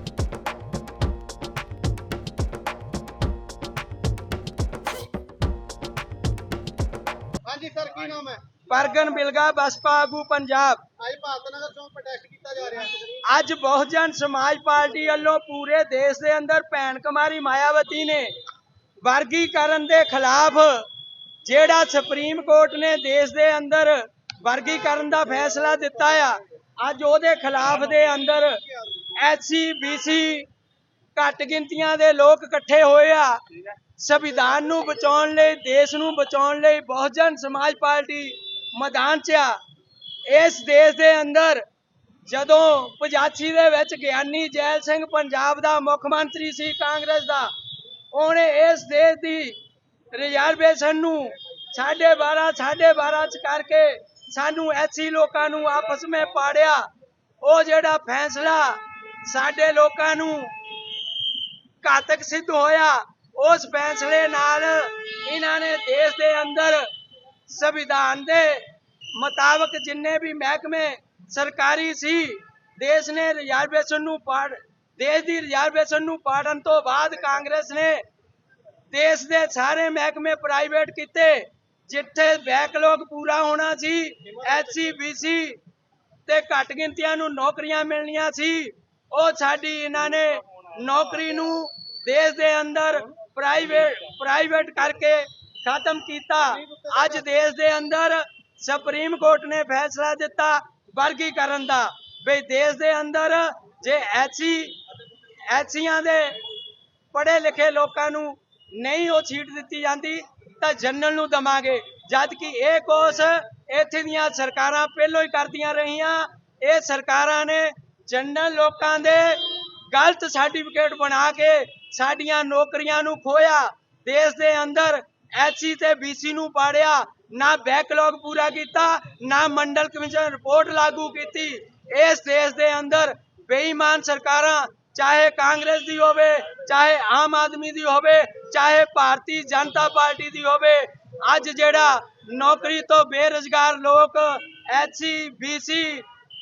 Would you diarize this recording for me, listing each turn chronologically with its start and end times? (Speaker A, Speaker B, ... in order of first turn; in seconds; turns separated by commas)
Speaker A: 7.5-8.5, Speaker B: 8.7-10.8, Speaker A: 11.0-13.2, Speaker B: 13.2-18.3, Speaker B: 19.0-20.9, Speaker B: 21.4-28.6, Speaker B: 29.2-30.5, Speaker B: 31.1-33.4, Speaker B: 34.0-39.6, Speaker B: 40.3-41.6, Speaker B: 42.3-47.5, Speaker B: 48.1-49.6, Speaker B: 50.1-56.9, Speaker B: 57.4-60.5, Speaker B: 61.8-66.9, Speaker B: 67.5-78.0, Speaker B: 78.9-85.6, Speaker B: 86.3-104.8, Speaker A: 96.6-97.1, Speaker B: 105.5-106.4, Speaker B: 107.1-146.1